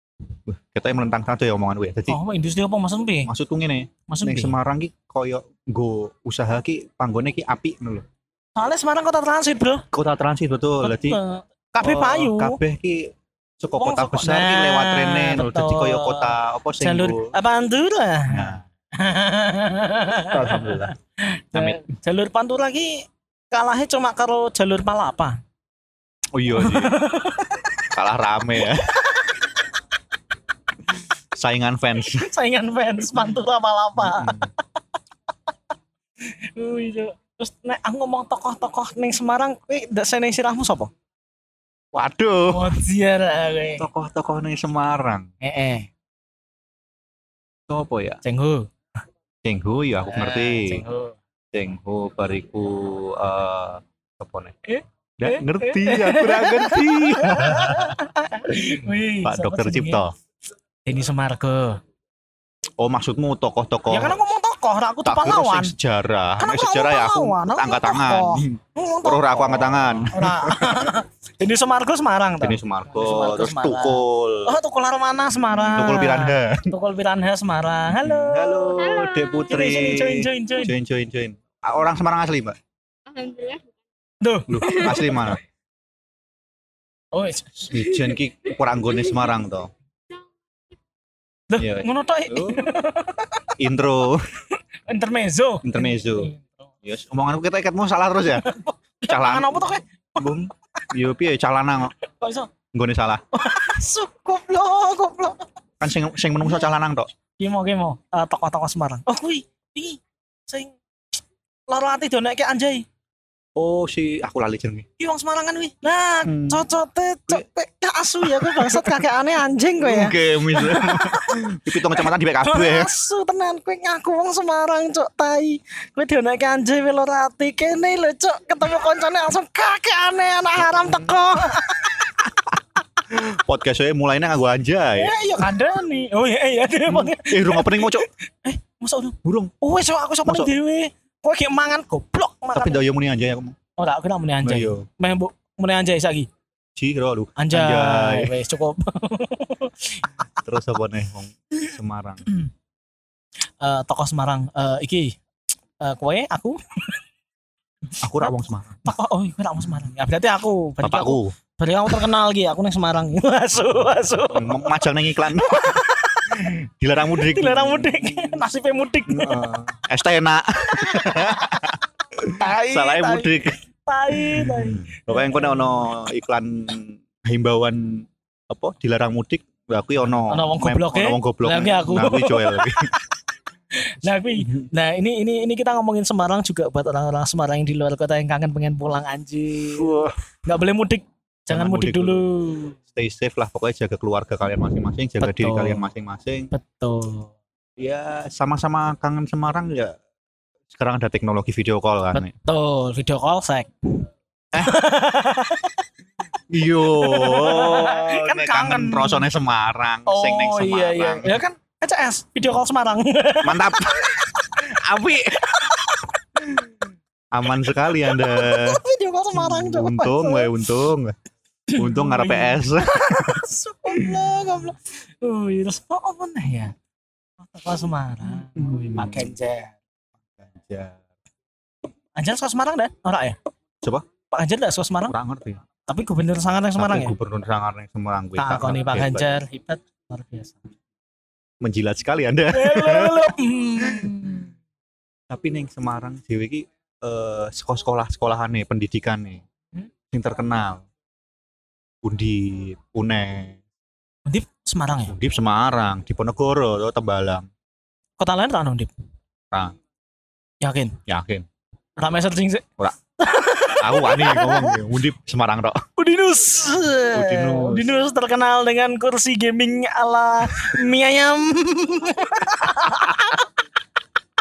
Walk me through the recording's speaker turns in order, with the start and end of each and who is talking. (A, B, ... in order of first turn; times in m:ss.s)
0:00.5-0:02.2 A
0:02.1-0:03.3 B
0:03.3-0:08.0 A
0:04.1-0:04.6 B
0:08.6-0:09.9 B
0:09.9-0:11.2 A
0:10.8-0:12.6 B
0:11.7-0:17.3 A
0:13.8-0:25.4 B
0:18.3-0:18.6 A
0:20.3-0:20.9 A
0:21.5-0:21.8 A
0:26.3-0:27.0 A
0:26.6-0:27.7 B
0:27.8-0:29.0 A
0:29.1-0:29.4 B
0:31.3-0:32.3 A
0:32.1-0:34.5 B
0:34.0-0:34.5 A
0:36.2-0:40.9 B
0:41.9-0:42.8 A
0:42.5-0:43.9 B
0:43.8-0:45.3 A
0:45.4-0:45.9 B
0:47.7-0:48.2 A
0:48.2-0:48.7 B
0:49.4-0:50.8 A
0:50.1-0:51.2 B
0:51.5-0:54.6 A
0:54.6-1:00.0 B
0:55.2-0:58.0 A
0:58.7-1:00.1 A
1:00.8-1:01.8 B
1:02.8-1:04.2 A
1:03.9-1:05.7 B
1:05.0-1:10.9 A
1:06.4-1:18.9 B
1:12.4-1:14.6 A
1:15.7-1:16.7 A
1:17.9-1:22.6 A
1:18.8-1:19.5 C
1:19.5-1:20.7 B
1:23.1-1:23.8 C
1:24.2-1:25.2 B
1:24.5-1:25.4 A
1:24.6-1:25.2 C
1:27.1-1:28.1 B
1:27.6-1:29.7 A
1:31.5-1:33.5 B
1:31.6-1:32.7 A
1:33.6-1:34.3 A
1:34.6-1:36.7 B
1:35.6-1:36.3 A
1:36.8-1:38.5 A
1:38.3-1:40.2 B
1:39.1-1:41.9 A
1:42.0-1:42.5 B
1:42.7-1:43.2 A
1:43.3-1:45.5 B
1:45.8-1:47.1 A
1:47.4-1:50.8 B
1:51.7-1:52.8 B
1:53.6-1:54.9 A
1:55.0-2:12.1 B
1:56.2-1:56.6 A
1:58.2-1:59.1 A
1:59.8-2:02.9 A
2:12.3-2:12.6 A
2:13.1-2:15.2 A
2:15.0-2:22.8 B
2:16.9-2:18.1 A
2:19.2-2:19.5 A
2:20.2-2:20.5 A
2:22.5-2:23.6 A
2:23.8-2:26.3 B
2:24.4-2:24.9 A
2:26.8-2:28.3 A
2:27.4-2:30.1 B
2:30.4-2:32.3 A
2:33.6-2:35.2 B
2:35.8-2:36.9 B
2:38.0-2:38.8 A
2:38.2-2:44.8 B
2:40.8-2:41.4 A
2:44.3-2:48.4 A
2:45.4-2:46.5 B
2:47.2-2:49.5 B
2:49.1-2:53.6 A
2:52.3-2:55.9 B
2:54.1-3:02.9 A
3:00.3-3:02.9 B
3:03.7-3:09.9 B
3:04.4-3:04.7 A
3:09.7-3:10.2 A
3:10.4-3:12.8 B
3:11.5-3:12.3 A
3:12.9-3:16.5 A
3:15.2-3:15.9 B
3:16.5-3:17.3 B
3:17.8-3:20.0 A
3:20.7-3:22.3 A
3:22.1-3:24.0 B
3:24.5-3:24.8 A
3:24.6-3:25.8 B
3:26.5-3:31.4 A
3:27.0-3:29.3 B
3:30.1-3:34.6 B
3:33.4-3:35.8 A
3:35.5-3:36.0 B
3:37.3-3:38.8 A
3:38.0-3:40.5 B
3:39.3-3:41.2 A
3:41.7-3:46.7 B
3:41.7-3:44.3 A
3:47.4-3:49.8 B
3:48.6-3:49.4 A
3:50.4-3:51.0 A
3:52.2-3:53.4 B
3:54.3-3:55.1 B
3:55.1-3:55.6 A
3:55.9-3:57.2 B
3:56.8-3:59.3 A
3:58.4-4:00.6 B
4:01.6-4:04.3 A
4:02.5-4:04.5 B
4:05.3-4:09.4 A
4:10.1-4:10.9 A
4:12.0-4:13.6 A
4:14.3-4:15.2 B
4:15.1-4:17.5 A
4:18.2-4:18.9 B
4:20.6-4:21.0 B
4:21.1-4:21.5 A
4:22.0-4:22.7 B
4:23.2-4:24.8 B
4:23.8-4:25.8 A
4:26.0-4:33.5 B
4:27.1-4:27.9 A